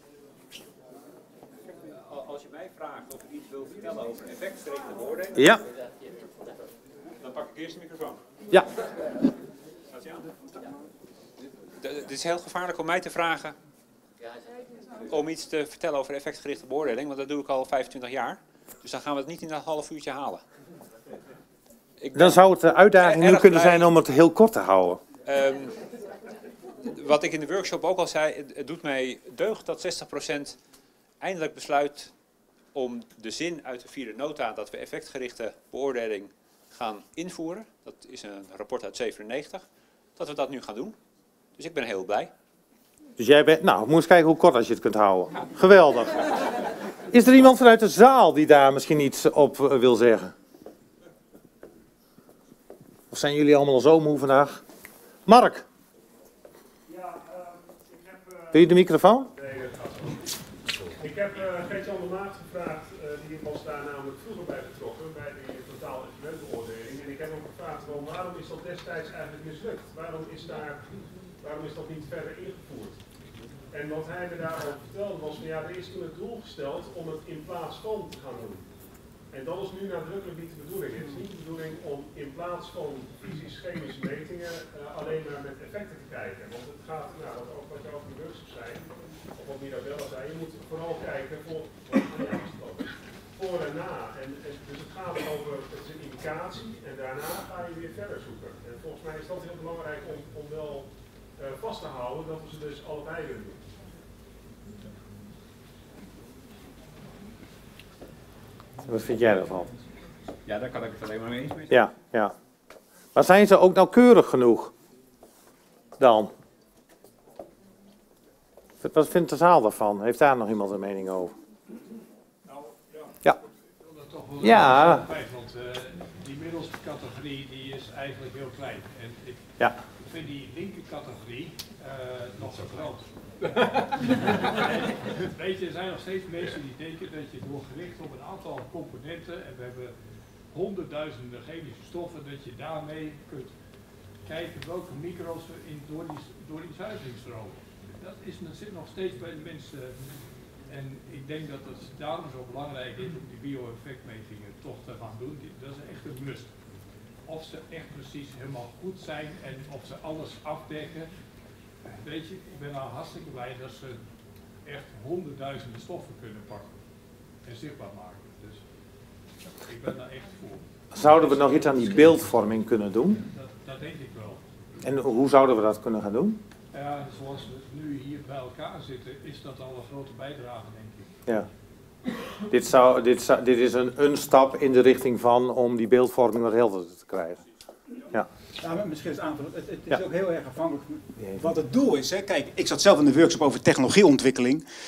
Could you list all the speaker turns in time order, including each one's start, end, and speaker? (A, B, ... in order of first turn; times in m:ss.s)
0:01.8-0:05.4 A
0:05.4-0:05.6 B
0:07.2-0:08.2 A
0:09.9-0:10.2 A
0:11.8-0:13.6 A
0:15.1-0:20.4 A
0:22.0-0:22.4 A
0:22.1-0:25.0 B
0:23.0-0:23.9 A
0:25.2-0:25.8 A
0:26.9-0:30.6 A
0:31.2-0:32.1 A
0:32.7-0:41.0 A
0:41.6-0:42.3 A
0:43.2-0:46.2 B
0:47.1-0:50.3 B
0:53.1-0:54.6 B
0:55.3-0:55.6 B
0:56.9-0:57.3 C
0:58.1-0:58.4 C
0:58.5-0:59.3 B
0:59.4-1:00.2 C
1:01.0-1:10.9 C
1:11.4-1:13.0 C
1:13.7-1:18.7 C
1:19.3-1:43.6 C
1:48.9-1:49.7 B
1:50.5-1:51.7 A
1:51.7-1:52.3 B
1:53.2-1:54.7 B
1:56.0-1:56.3 B
1:58.8-2:01.3 B
2:02.5-2:03.0 D
2:03.9-2:20.0 D
2:04.4-2:05.1 B
2:20.5-2:23.6 D
2:24.2-2:36.6 D
2:37.3-2:41.1 D
2:41.9-2:44.0 D
2:44.6-2:46.8 D
2:47.4-2:48.6 D
2:49.6-2:52.2 D
2:50.9-2:53.2 B
2:53.3-2:54.4 D
2:54.8-2:56.4 B
2:56.7-3:01.2 D
3:02.5-3:07.4 B
3:08.6-3:14.6 E